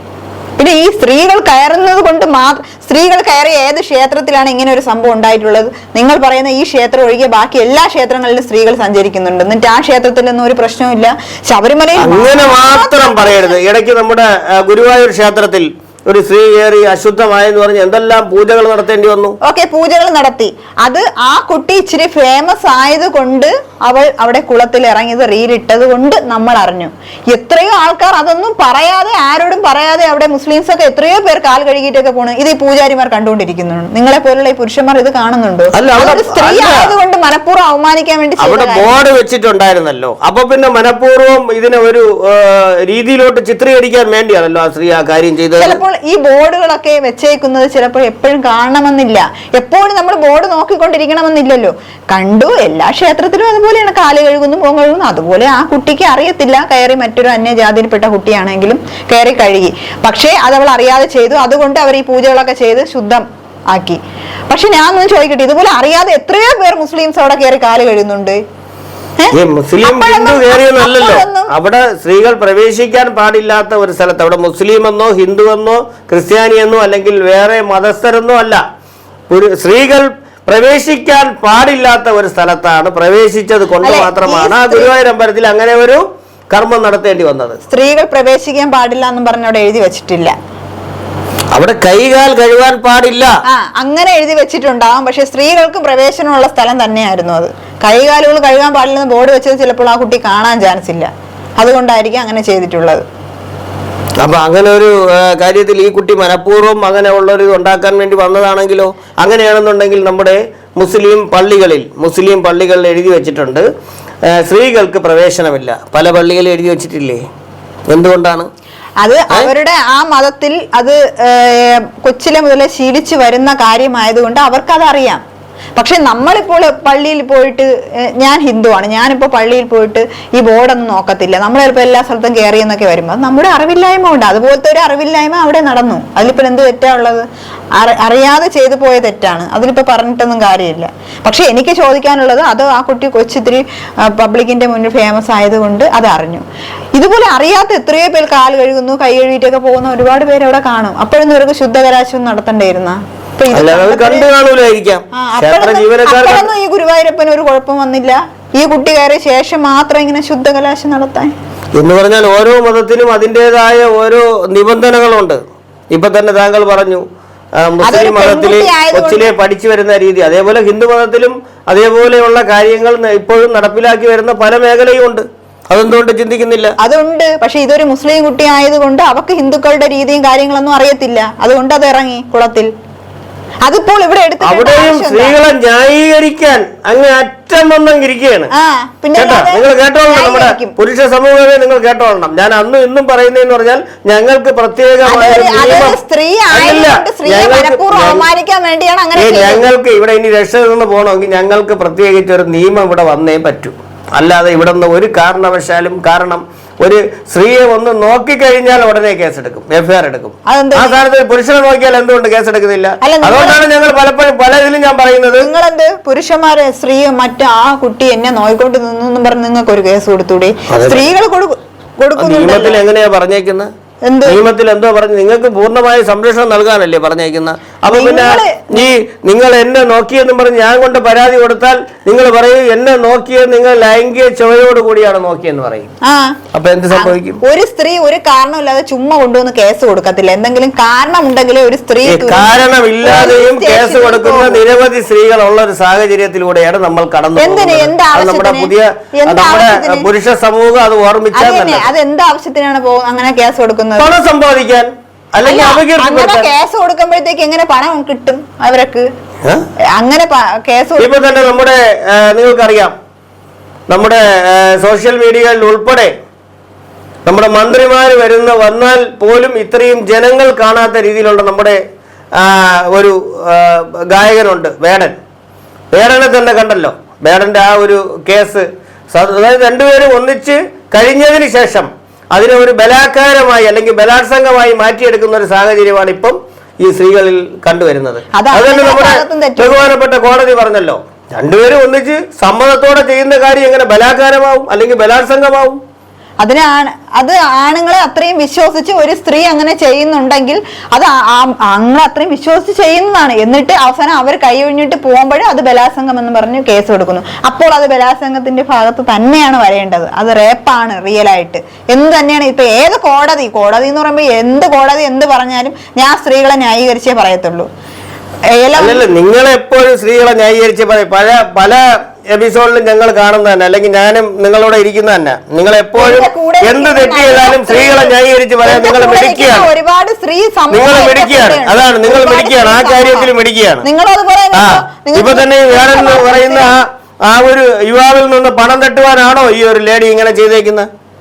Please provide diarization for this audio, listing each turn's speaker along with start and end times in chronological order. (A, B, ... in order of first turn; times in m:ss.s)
0:00.6-0:13.6 A
0:12.0-0:19.4 B
0:19.4-0:38.9 A
0:35.8-0:36.9 B
0:38.4-0:45.8 B
0:45.6-1:08.4 A
1:09.2-1:11.5 A
1:09.3-1:18.6 B
1:19.3-1:27.6 B
1:23.8-1:24.9 A
1:27.7-1:30.3 A
1:31.5-1:33.3 B
1:33.5-1:43.0 A
1:44.2-1:53.7 B
1:54.3-1:57.2 B
1:57.9-1:58.5 B
1:59.0-2:05.2 A
2:05.8-2:26.4 A
2:26.9-2:34.3 A
2:33.5-2:36.5 B
2:35.1-2:41.3 A
2:41.8-2:45.4 B
2:45.9-2:47.0 B
2:47.6-2:56.8 B
2:47.8-2:49.3 A
2:56.8-3:02.7 A
3:03.6-3:05.3 A
3:04.4-3:08.5 B
3:08.5-3:10.8 A
3:09.1-3:16.0 B
3:15.0-3:19.6 A
3:16.5-3:18.2 B
3:19.2-3:35.5 B
3:30.5-3:31.0 A
3:33.0-3:33.6 A
3:35.4-3:42.8 A
3:40.7-3:41.1 B
3:42.2-3:43.7 B
3:44.0-3:44.4 A
3:44.2-3:55.9 B
3:47.9-3:48.9 A
3:56.0-3:56.4 A
3:56.5-3:57.4 B
3:56.9-4:02.5 A
4:02.0-4:11.9 B
4:03.0-4:04.6 A
4:07.4-4:10.1 A
4:11.3-4:14.1 A
4:14.0-4:16.5 B
4:15.4-4:19.1 A
4:19.9-4:21.1 A
4:21.0-4:22.9 B
4:23.9-4:26.1 B
4:27.2-4:31.8 B
4:32.4-4:35.2 B
4:35.9-4:55.8 B
4:48.3-4:49.9 A
4:56.4-5:17.7 A
5:18.5-5:19.0 A
5:18.8-5:29.7 B
5:26.0-5:33.3 A
5:30.7-5:33.8 B
5:33.8-5:36.7 A
5:34.5-5:40.9 B